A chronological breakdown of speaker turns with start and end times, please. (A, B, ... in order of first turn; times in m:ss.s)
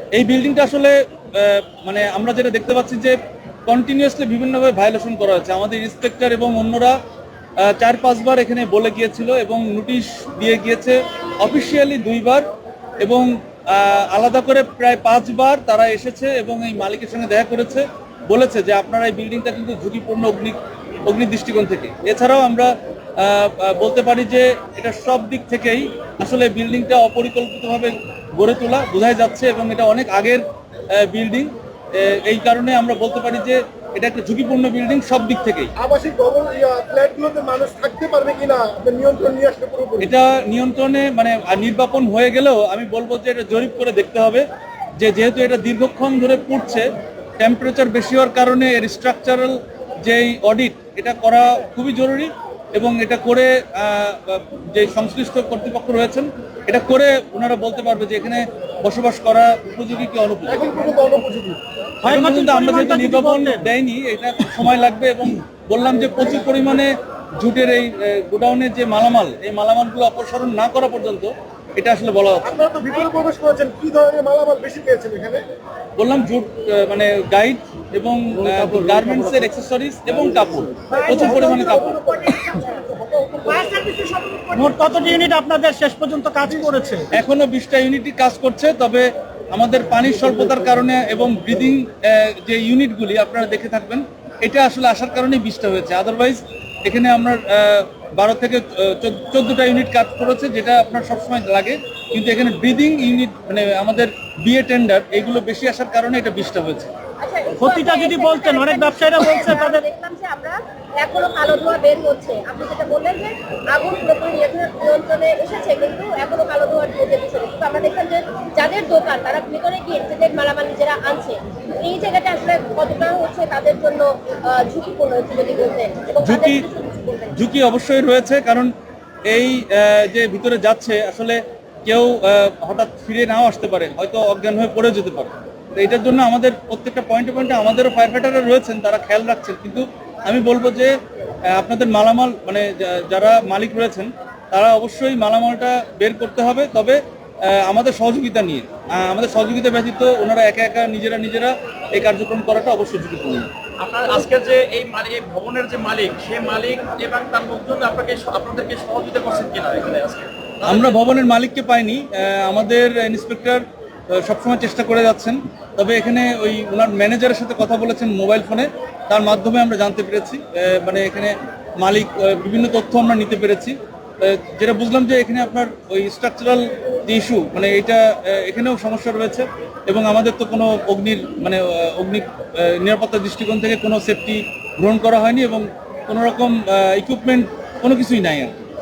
0:00.1-0:06.9 A
0:07.6-0:12.5 A
0:13.0-0:35.7 A
0:35.8-0:40.1 B
0:40.0-0:44.4 A
0:45.0-0:46.8 A
0:47.4-1:00.7 A
1:00.5-1:01.6 B
1:02.0-1:03.7 C
1:02.0-1:12.6 A
1:12.4-1:15.4 B
1:16.0-1:22.0 A
1:20.9-1:23.9 B
1:20.9-1:22.8 D
1:23.6-1:27.1 C
1:26.4-1:26.7 B
1:27.1-1:46.9 A
1:47.2-2:07.4 D
1:47.6-1:49.8 C
2:06.2-2:06.6 A
2:07.3-2:08.7 A
2:09.3-2:20.9 A
2:21.5-2:33.5 A
2:33.8-2:41.0 E
2:40.6-3:08.6 A